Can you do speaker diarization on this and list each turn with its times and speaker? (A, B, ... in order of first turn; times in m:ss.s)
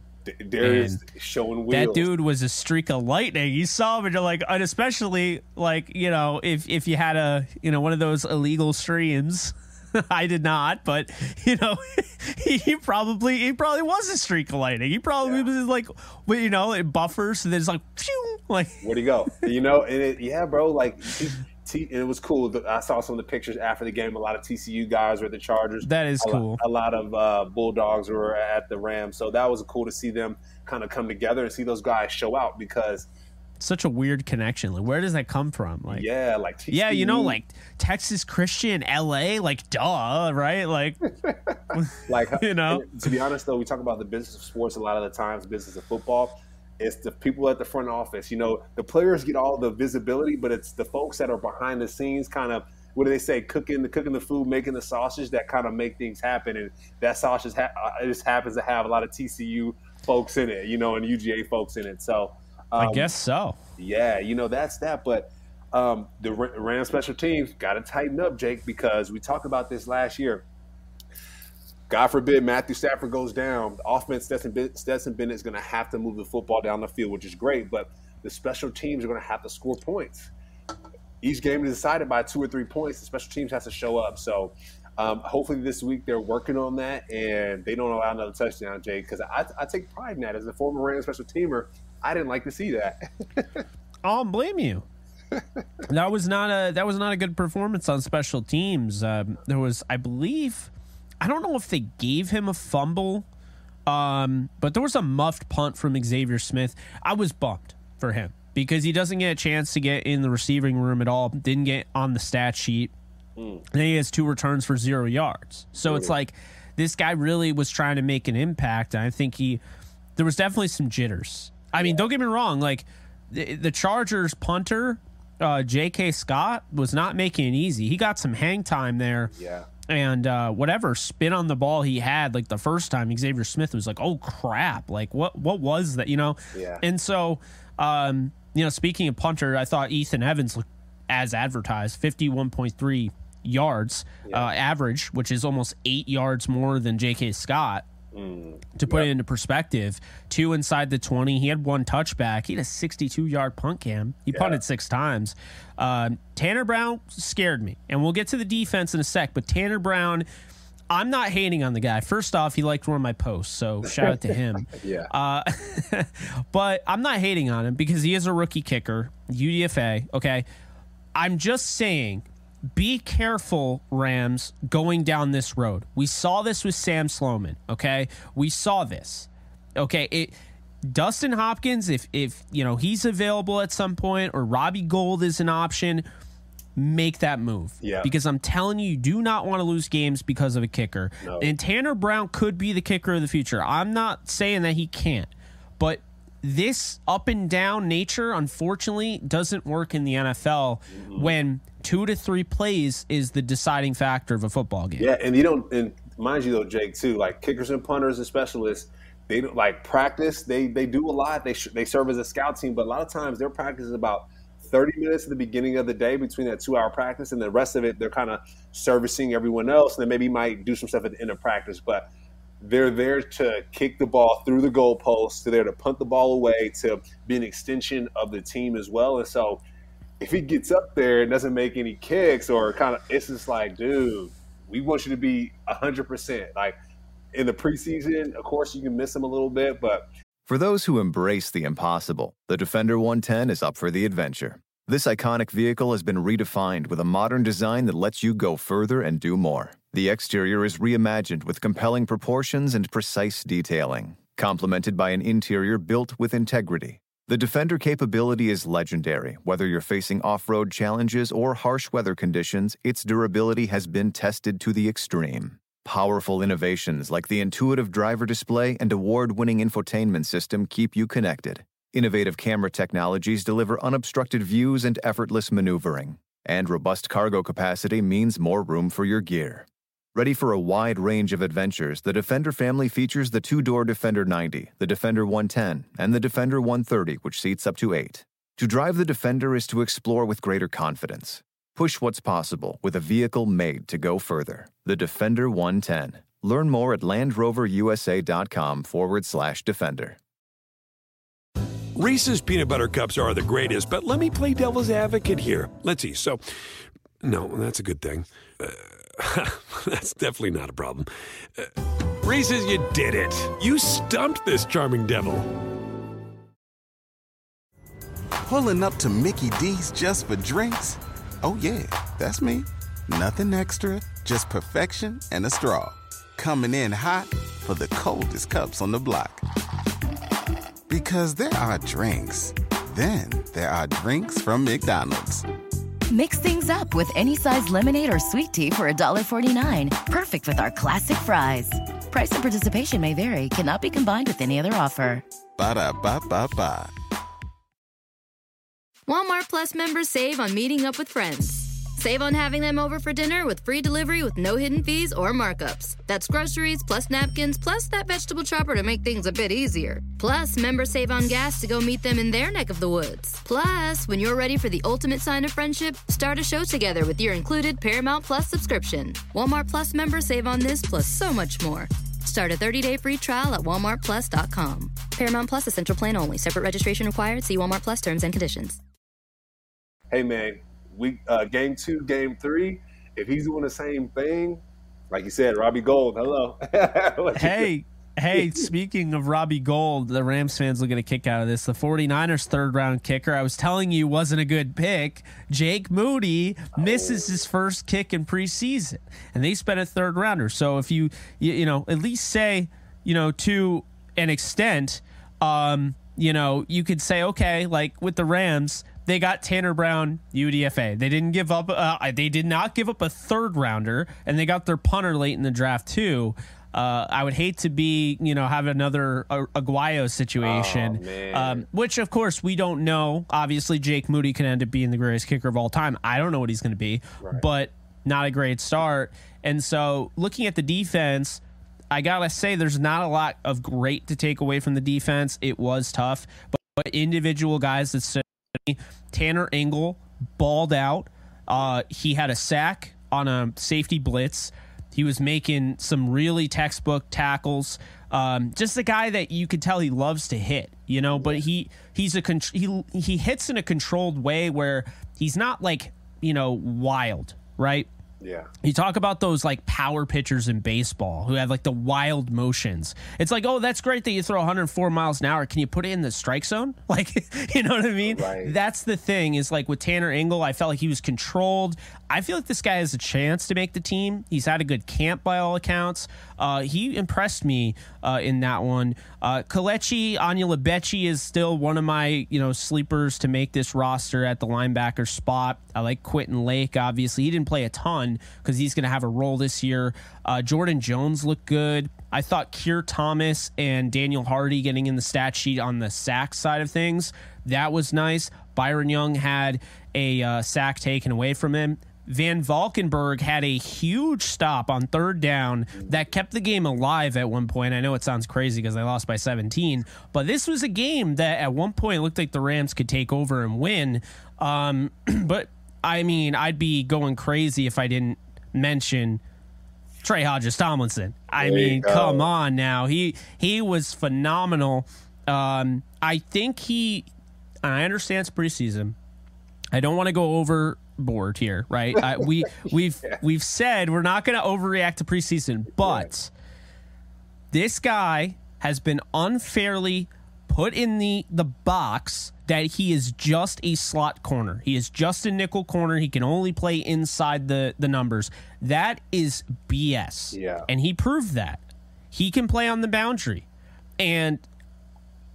0:00.2-0:02.1 A
0:00.6-0:01.0 B
0:01.7-0:18.8 B
0:15.2-0:15.5 A
0:18.8-0:33.1 A
0:25.8-0:26.6 B
0:33.6-0:36.0 B
0:35.9-0:37.4 A
0:36.7-0:41.0 B
0:41.2-1:03.2 A
0:41.7-0:42.8 B
1:02.8-1:03.6 B
1:03.8-1:10.4 A
1:11.9-1:20.3 A
1:21.2-1:33.6 A
1:34.0-1:34.8 B
1:35.9-1:43.2 B
1:43.9-1:52.9 B
1:53.4-1:53.6 A
1:53.7-1:59.6 B
1:55.8-1:56.1 A
2:00.2-2:09.3 B
2:01.8-2:02.1 A
2:09.3-2:09.7 A
2:09.9-2:27.8 B
2:16.5-2:16.8 A
2:24.2-2:24.5 A
2:28.1-2:29.1 A
2:28.8-2:40.2 B
2:34.3-2:34.6 A
2:40.9-2:50.4 B
2:43.9-2:44.2 A
2:44.7-2:45.1 A
2:51.1-3:06.0 B
3:06.8-3:25.1 B
3:07.8-3:08.1 A
3:11.2-3:11.5 A
3:20.9-3:21.4 A
3:25.0-3:42.1 A
3:42.6-3:49.6 A
3:50.2-3:56.8 A
3:57.3-4:00.1 A
4:00.4-5:00.2 C
5:02.0-5:06.4 D
5:07.2-5:15.5 D
5:18.4-5:29.4 E
5:30.9-5:35.4 E
5:36.1-5:45.2 F
5:45.6-5:46.9 E
5:49.1-6:18.8 G
6:20.1-6:27.7 A
6:27.4-7:37.9 B
6:28.3-6:28.6 A
6:36.7-6:37.4 A
7:00.4-7:01.6 A
7:07.2-7:07.4 A
7:31.1-7:31.4 A
7:38.2-7:38.5 A
7:38.6-8:39.2 B
7:48.0-7:48.6 A
8:25.7-8:26.1 A
8:40.0-8:47.1 B
8:41.4-8:42.3 A
8:47.6-8:48.9 B
8:49.7-8:56.3 B
8:55.8-8:56.1 A
8:57.5-9:13.4 B
9:10.3-9:10.7 A
9:14.0-9:14.4 B